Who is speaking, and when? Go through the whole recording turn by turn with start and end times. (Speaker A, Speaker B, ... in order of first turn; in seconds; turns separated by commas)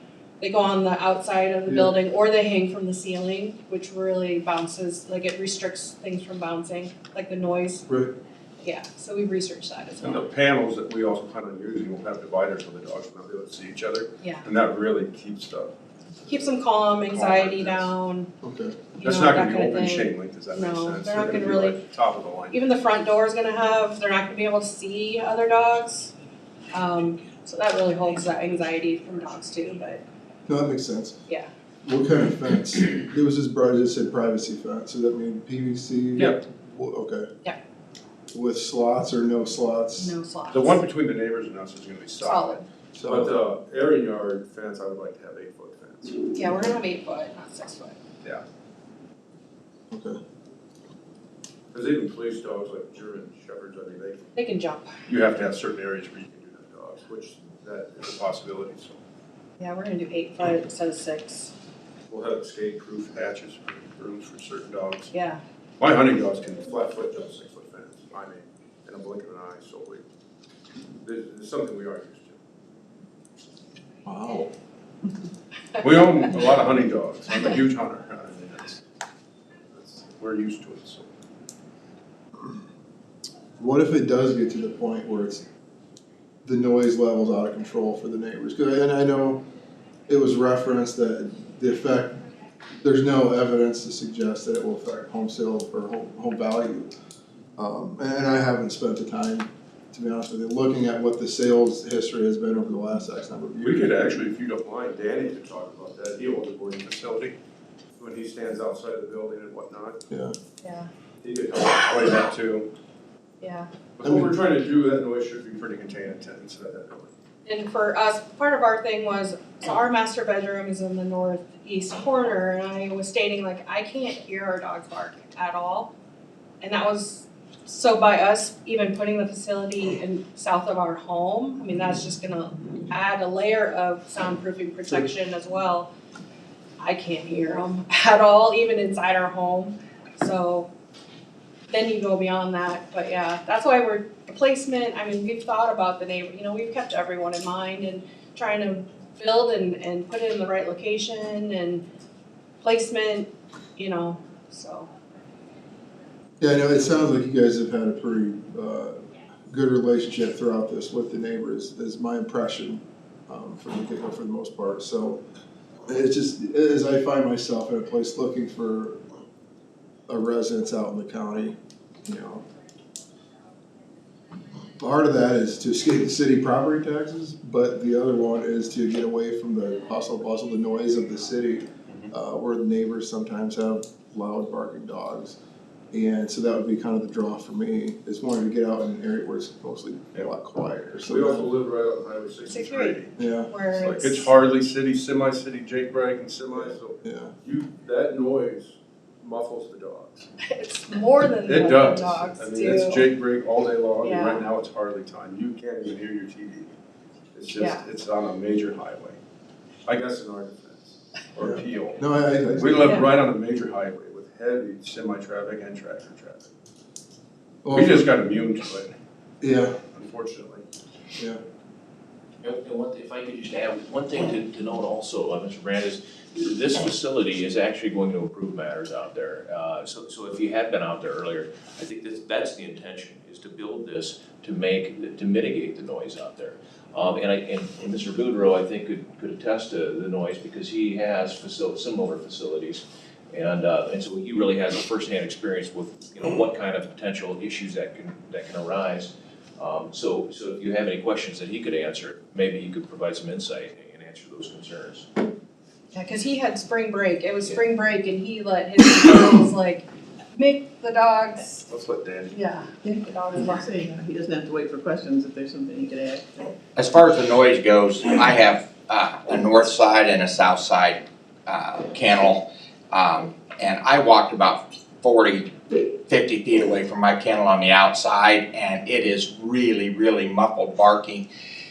Speaker A: 0.4-7.8, Speaker B: 1.7-1.9, Speaker B: 7.9-8.1, Speaker A: 8.6-10.2, Speaker C: 10.0-15.7, Speaker A: 16.2-18.3, Speaker C: 17.1-17.9, Speaker B: 18.4-18.8, Speaker A: 19.0-21.8, Speaker C: 19.0-22.6, Speaker A: 22.5-26.1, Speaker A: 26.7-30.0, Speaker B: 30.4-31.2, Speaker B: 31.8-37.3, Speaker B: 38.3-40.1, Speaker A: 40.0-40.8, Speaker C: 40.5-46.3, Speaker A: 42.2-42.6, Speaker B: 42.9-43.3, Speaker A: 46.3-48.0, Speaker B: 49.9-50.2, Speaker C: 51.7-54.3, Speaker A: 54.4-54.9, Speaker C: 55.1-59.0, Speaker A: 59.6-61.5, Speaker C: 62.1-65.1, Speaker A: 65.1-65.4, Speaker C: 65.8-70.0, Speaker C: 71.0-72.4, Speaker B: 74.0-74.5, Speaker C: 75.8-78.8, Speaker C: 79.7-81.1, Speaker B: 83.6-85.4, Speaker B: 86.4-89.4, Speaker B: 90.1-92.2, Speaker B: 92.8-96.9, Speaker B: 97.6-103.9, Speaker C: 103.6-107.3, Speaker C: 108.0-110.0, Speaker B: 110.1-110.3, Speaker A: 110.6-110.9, Speaker C: 111.2-112.7, Speaker A: 113.4-113.7, Speaker C: 114.0-117.1, Speaker B: 114.0-114.3, Speaker A: 117.5-125.9, Speaker A: 126.6-135.9, Speaker A: 136.8-140.7, Speaker A: 141.7-151.8, Speaker A: 152.6-154.9, Speaker B: 156.4-165.2, Speaker B: 165.9-169.0, Speaker B: 170.1-172.4, Speaker B: 174.8-185.4, Speaker B: 185.9-191.5, Speaker C: 191.1-193.1, Speaker A: 192.5-194.3, Speaker B: 193.2-193.5, Speaker C: 193.7-200.3, Speaker B: 196.5-197.3, Speaker A: 200.4-203.0, Speaker C: 201.4-206.7, Speaker A: 204.0-204.4, Speaker C: 207.3-209.2, Speaker A: 207.5-207.8, Speaker C: 209.8-212.0, Speaker B: 211.4-213.0, Speaker C: 212.6-216.5, Speaker A: 212.8-213.1, Speaker B: 217.6-218.1, Speaker C: 217.7-218.9, Speaker B: 219.4-219.8, Speaker C: 219.9-220.6, Speaker D: 222.4-255.1, Speaker A: 255.9-259.8, Speaker A: 260.3-261.7, Speaker C: 261.7-262.4, Speaker A: 262.3-263.9, Speaker E: 262.8-266.5, Speaker F: 266.8-281.2